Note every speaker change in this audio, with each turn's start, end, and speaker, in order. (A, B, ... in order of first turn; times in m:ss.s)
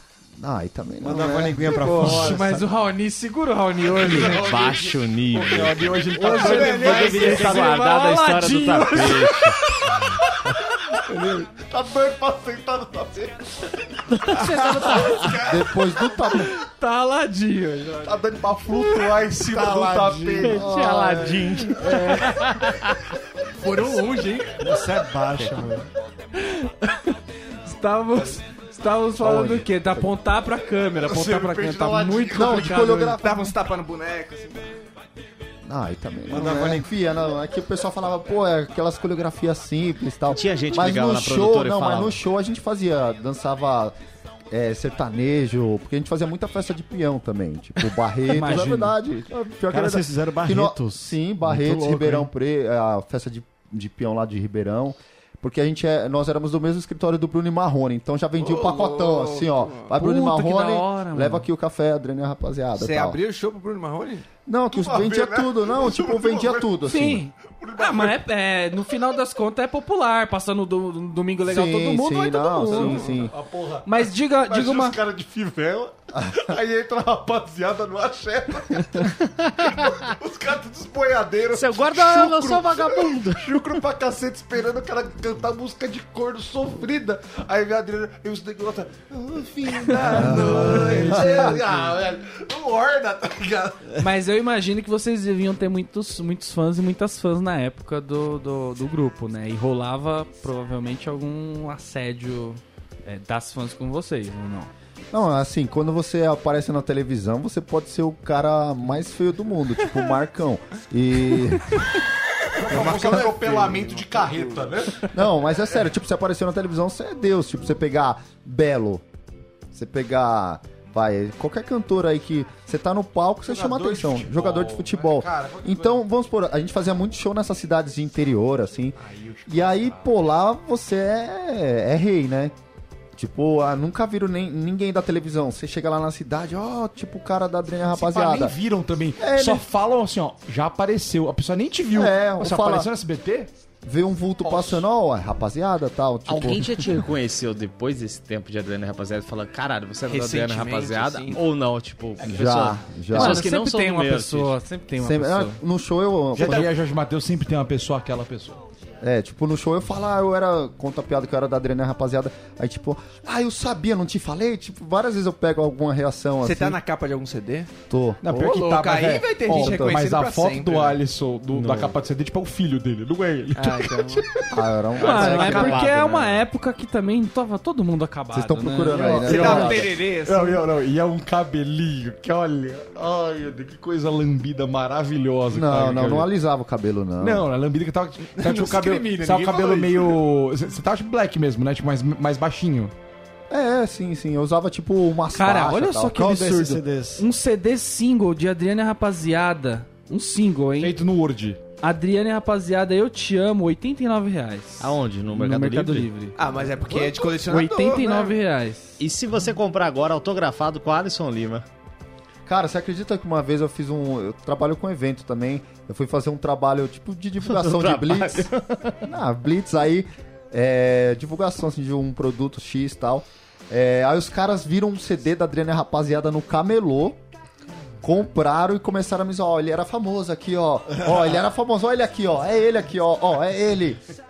0:00.4-0:02.2 A
0:01.0-0:02.6 B
0:01.3-0:02.6 C
0:02.0-0:04.7 D
0:03.8-0:07.9 C
0:04.1-0:09.6 E
0:06.2-0:10.1 D
0:06.2-0:07.4 F
0:09.9-0:15.6 C
0:14.2-0:15.4 D
0:15.3-0:16.5 A
0:16.3-0:18.2 D
0:18.0-0:20.8 C
0:19.4-0:20.6 B
0:20.5-0:22.8 E
0:20.5-0:21.5 A
0:21.5-0:22.8 D
0:21.7-0:22.4 C
0:23.6-0:24.5 D
0:23.7-0:24.4 F
0:24.6-0:25.9 B
0:26.4-0:27.1 D
0:27.6-0:33.2 D
0:29.2-0:30.1 A
0:31.4-0:31.8 C
0:32.3-0:33.5 A
0:33.2-0:34.7 F
0:35.6-0:44.0 A
0:36.3-0:36.8 B
0:40.3-0:42.2 E
0:44.5-1:03.2 A
0:48.3-0:49.0 D
0:49.7-0:52.3 B
0:58.4-0:59.9 F
0:59.9-1:01.5 D
1:02.8-1:04.3 F
1:04.5-1:07.2 A
1:04.7-1:06.8 C
1:06.8-1:13.2 D
1:07.4-1:08.2 C
1:11.5-1:13.4 A
1:12.8-1:33.9 C
1:12.8-1:13.1 F
1:13.9-1:15.0 D
1:19.4-1:19.9 E
1:21.5-1:23.6 E
1:30.1-1:31.5 A
1:30.7-1:31.2 D
1:34.0-1:44.7 D
1:45.1-1:51.8 A
1:52.6-1:55.1 C
1:52.7-1:54.7 F
1:52.7-1:53.3 A
1:55.1-1:59.0 A
1:59.7-2:12.5 A
2:03.5-2:06.0 C
2:09.0-2:10.1 C
2:13.2-2:18.6 A
2:17.9-2:23.5 C
2:19.2-2:19.6 A
2:21.9-2:22.9 A
2:23.8-2:26.9 A
2:24.4-2:24.8 C
2:26.3-2:34.6 E
2:30.1-2:31.4 F
2:32.2-2:32.6 C
2:32.3-2:33.5 A
2:33.1-2:35.6 D
2:35.0-2:36.7 A
2:36.3-2:38.6 C
2:39.0-2:46.8 A
2:46.4-2:47.7 F
2:47.9-2:48.3 A
2:48.2-2:54.5 C
2:48.3-2:51.0 F
2:49.5-2:50.0 A
2:51.5-2:52.0 E
2:53.6-2:54.2 F
2:54.5-2:55.9 A
2:55.0-2:59.7 D
2:55.0-2:56.4 E
2:55.1-2:55.3 F
2:55.3-2:55.8 C
2:58.3-2:59.9 A
2:59.2-3:00.6 F
2:59.3-3:06.3 C
3:05.5-3:07.5 A
3:07.2-3:12.9 C
3:08.3-3:10.2 F
3:13.5-3:16.2 A
3:15.3-3:21.0 D
3:16.1-3:17.3 B
3:20.8-3:21.6 C
3:21.8-3:26.4 D
3:24.8-3:26.1 E
3:26.4-3:28.4 F
3:27.4-3:29.0 D
3:29.0-3:31.7 E
3:32.5-3:38.5 A
3:37.4-3:39.0 E
3:39.0-3:47.2 A
3:48.0-3:54.0 A